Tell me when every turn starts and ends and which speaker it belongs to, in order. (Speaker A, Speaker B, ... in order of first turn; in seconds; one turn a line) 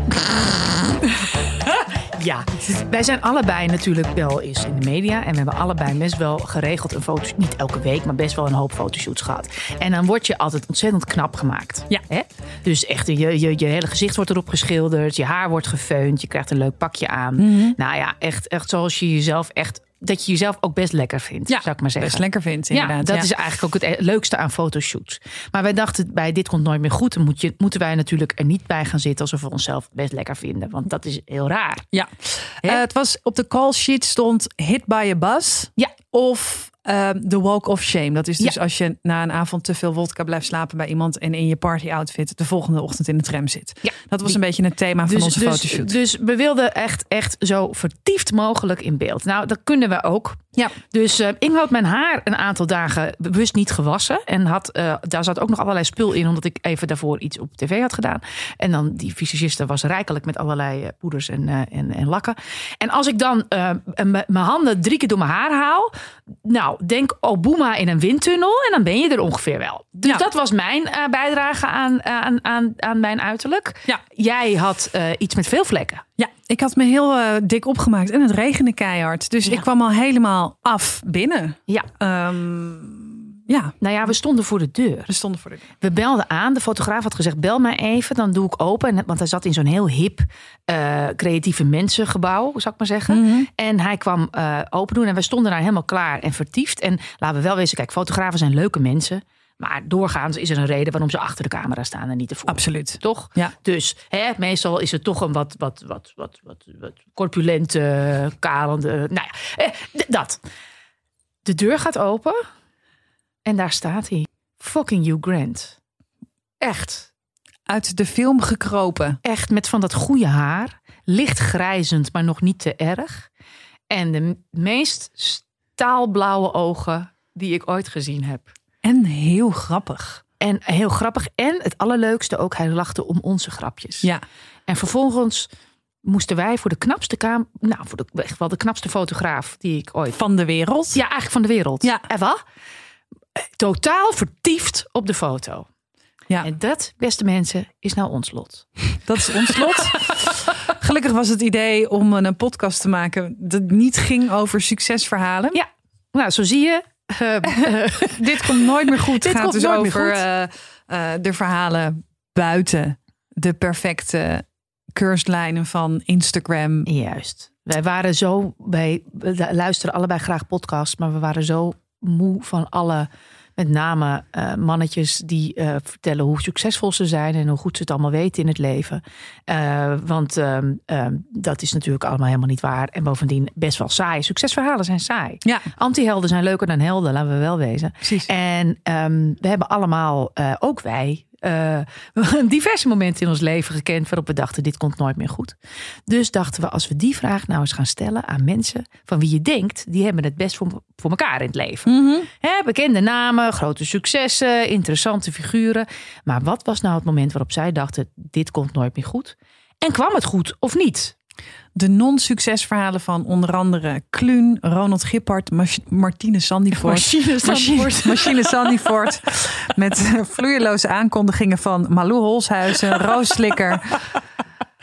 Speaker A: 0.3-1.1
Speaker A: 1.6-31.9
Speaker B: 17.4-17.8
Speaker B: 21.5-23.3
Speaker B: 31.9-46.0
Speaker A: 45.1-65.9
Speaker A: 66.4-76.0
Speaker B: 76.2-83.8
Speaker A: 83.8-85.1
Speaker B: 85.1-85.7
Speaker A: 85.8-110.4
Speaker B: 93.1-93.5
Speaker B: 102.5-103.5
Speaker A: 111.4-112.4
Speaker A: 113.5-115.8
Speaker A: 116.6-117.1
Speaker B: 117.7-119.2
Speaker A: 119.2-123.3
Speaker A: 123.9-128.5
Speaker B: 128.8-130.2
Speaker A: 130.4-134.1
Speaker A: 134.7-135.5
Speaker A: 136.0-140.2
Speaker B: 140.1-141.0
Speaker A: 140.9-142.4
Speaker A: 143.4-145.7
Speaker A: 146.4-148.7
Speaker B: 149.0-155.6
Speaker A: 155.5-160.2
Speaker B: 158.2-166.9
Speaker A: 166.9-195.5
Speaker B: 185.4-185.7
Speaker A: 196.1-211.2
Speaker B: 201.8-202.3
Speaker B: 211.8-224.0
Speaker A: 216.8-218.7